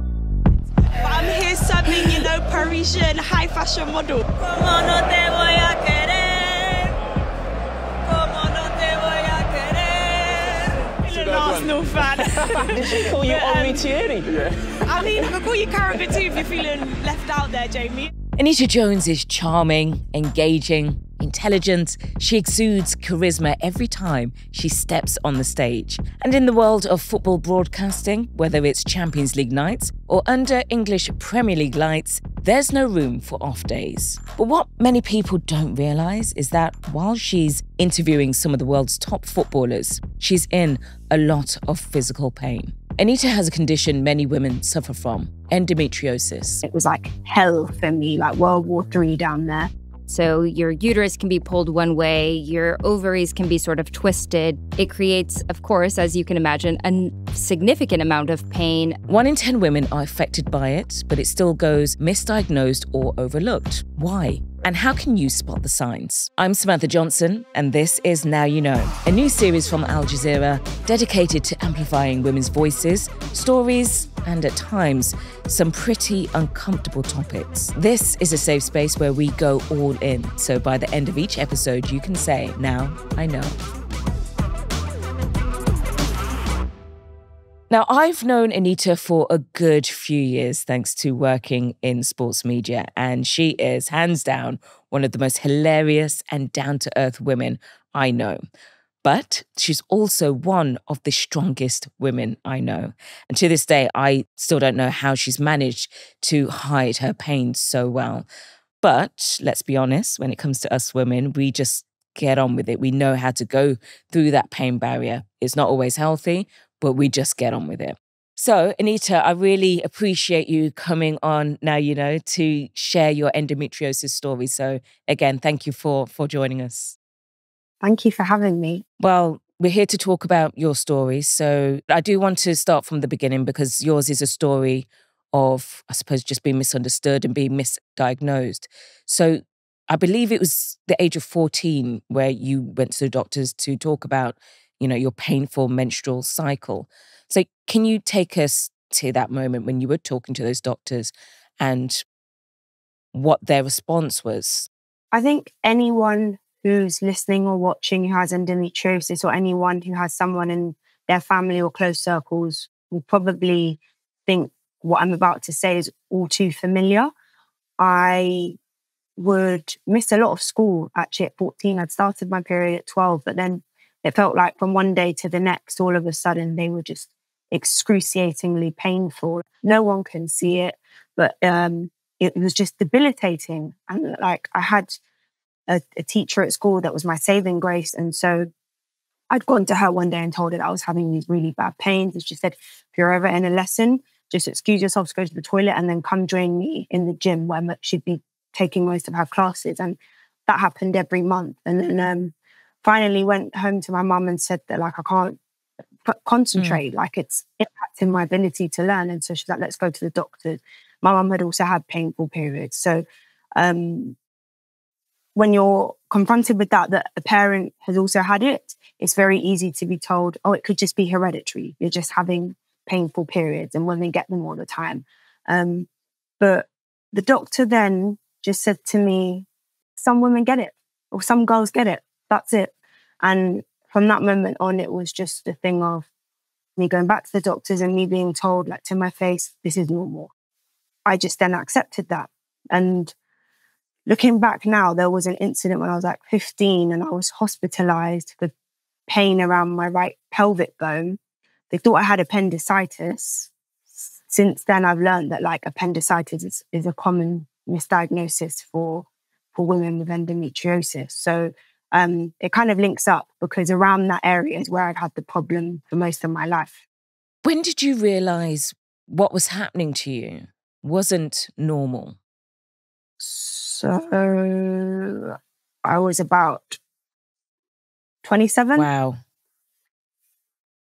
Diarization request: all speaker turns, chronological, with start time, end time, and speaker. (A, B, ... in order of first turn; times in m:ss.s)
0:01.0-0:06.9 A
0:08.0-0:13.8 A
0:11.0-0:15.3 B
0:14.8-0:18.1 A
0:18.4-0:46.6 C
0:46.6-0:49.7 D
0:50.1-0:59.0 E
0:59.1-1:23.5 C
1:27.7-1:38.4 C
1:39.0-1:48.2 C
1:48.8-2:07.0 C
2:07.8-2:08.8 D
2:09.0-2:32.0 C
2:33.1-2:34.7 C
2:35.1-2:47.1 D
2:47.8-2:48.6 D
2:49.2-3:05.0 D
3:05.7-3:08.5 D
3:09.3-3:25.4 D
3:26.0-3:33.0 D
3:26.6-3:26.8 C
3:33.6-3:34.2 D
3:35.4-3:45.9 D
3:46.4-3:56.1 D
3:56.8-4:00.3 D
4:01.0-4:03.1 D
4:04.0-4:08.5 D
4:09.1-4:11.2 D
4:11.7-4:13.5 D
4:14.3-4:26.8 D
4:27.4-4:32.2 C
4:33.2-4:36.8 D
4:38.2-4:38.9 D
4:38.7-4:39.2 C